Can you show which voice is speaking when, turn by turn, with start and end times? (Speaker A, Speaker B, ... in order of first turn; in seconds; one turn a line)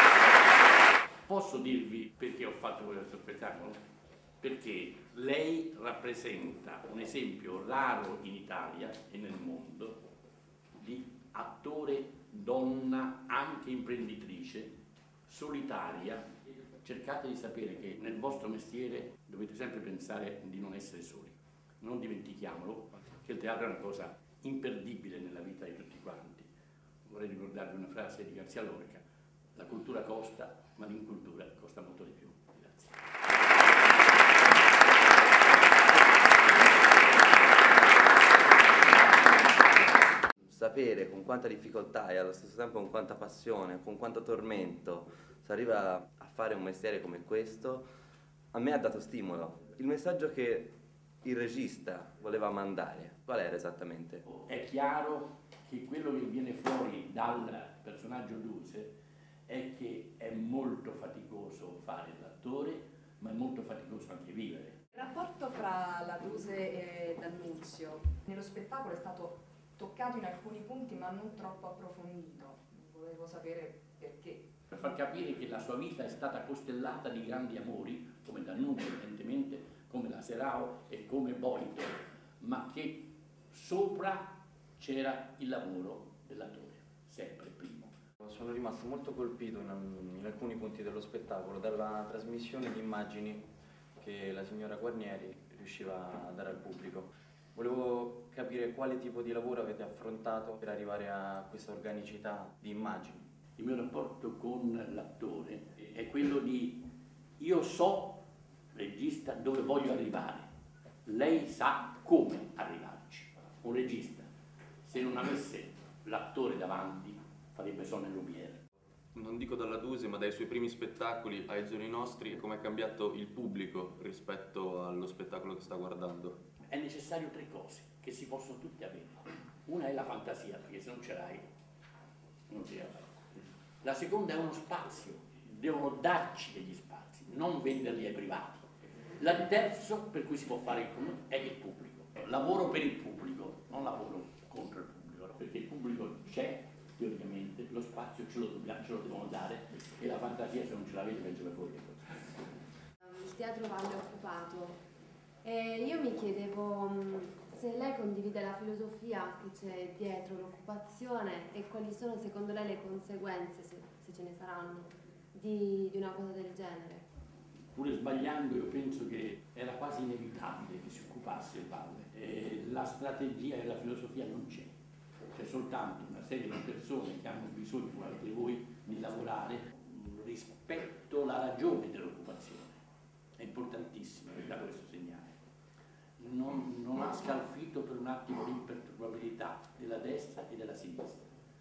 Speaker A: 1.3-3.8
Speaker A: 4.4-10.0
Speaker A: 10.8-16.3
Speaker A: 16.8-26.5
Speaker A: 27.0-33.0
Speaker B: 40.5-47.8
Speaker B: 48.5-54.2
Speaker A: 54.2-64.8
Speaker C: 64.9-74.5
Speaker A: 74.7-87.9
Speaker D: 88.2-93.4
Speaker D: 94.0-103.2
Speaker A: 103.6-110.5
Speaker A: 111.0-114.3
Speaker A: 114.8-118.6
Speaker E: 119.1-126.3
Speaker A: 126.7-131.5
Speaker A: 132.5-133.2
Speaker A: 133.8-152.2
Speaker F: 153.0-154.8
Speaker F: 155.4-167.0
Speaker A: 167.7-174.7
Speaker A: 175.3-182.8
Speaker A: 183.4-185.3
Speaker A: 186.2-191.3